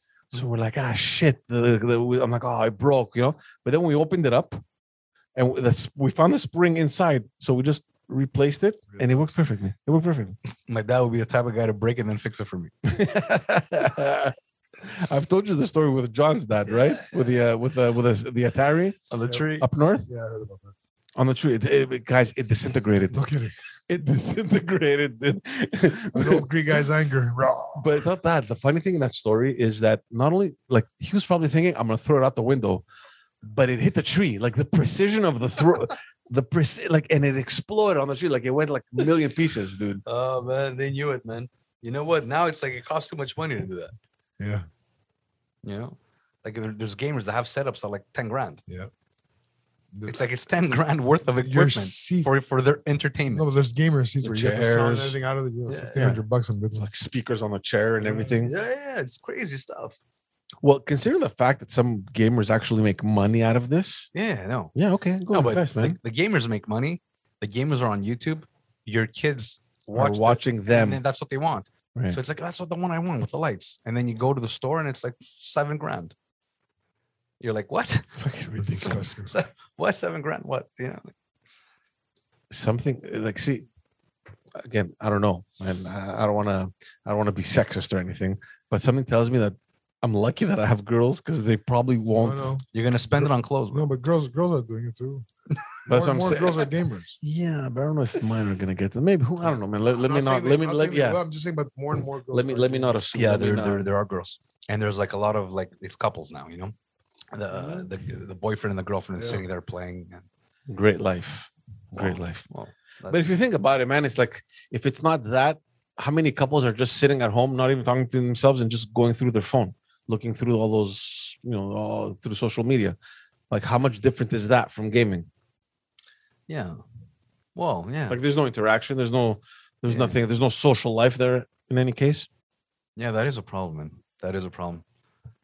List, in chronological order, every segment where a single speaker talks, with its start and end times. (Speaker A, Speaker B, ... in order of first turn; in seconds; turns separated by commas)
Speaker A: 0.3-4.6, Speaker A: 5.3-10.3, Speaker B: 10.7-12.7, Speaker A: 12.8-20.1, Speaker B: 19.1-19.6, Speaker C: 20.1-20.7, Speaker A: 21.2-23.2, Speaker C: 23.1-23.5, Speaker A: 23.9-26.5, Speaker C: 26.1-28.0, Speaker A: 27.7-32.8, Speaker A: 33.4-40.0, Speaker B: 40.0-43.9, Speaker C: 44.4-44.6, Speaker B: 45.6-48.6, Speaker C: 49.9-50.2, Speaker B: 50.0-53.5, Speaker C: 51.4-52.3, Speaker C: 53.3-56.9, Speaker B: 54.2-55.1, Speaker A: 54.3-55.0, Speaker B: 55.7-56.0, Speaker A: 56.7-58.5, Speaker C: 58.0-58.4, Speaker B: 58.4-60.0, Speaker A: 60.6-64.1, Speaker B: 64.1-64.7, Speaker A: 64.7-66.0, Speaker B: 65.3-76.1, Speaker A: 69.9-71.0, Speaker B: 77.4-78.2, Speaker A: 78.2-79.0, Speaker C: 78.6-79.3, Speaker B: 78.8-81.1, Speaker A: 82.5-83.7, Speaker A: 84.5-92.5, Speaker C: 92.2-95.2, Speaker B: 92.7-93.9, Speaker C: 95.8-97.2, Speaker A: 95.9-96.7, Speaker A: 97.2-101.2, Speaker C: 100.0-103.0, Speaker A: 102.3-103.9, Speaker B: 103.1-106.7, Speaker B: 107.3-110.3, Speaker C: 109.2-109.4, Speaker A: 110.7-112.4, Speaker B: 111.9-113.2, Speaker A: 113.1-123.0, Speaker A: 123.5-125.3, Speaker B: 126.5-126.8, Speaker B: 127.5-128.2, Speaker A: 128.1-132.3, Speaker B: 129.9-130.1, Speaker B: 132.9-134.8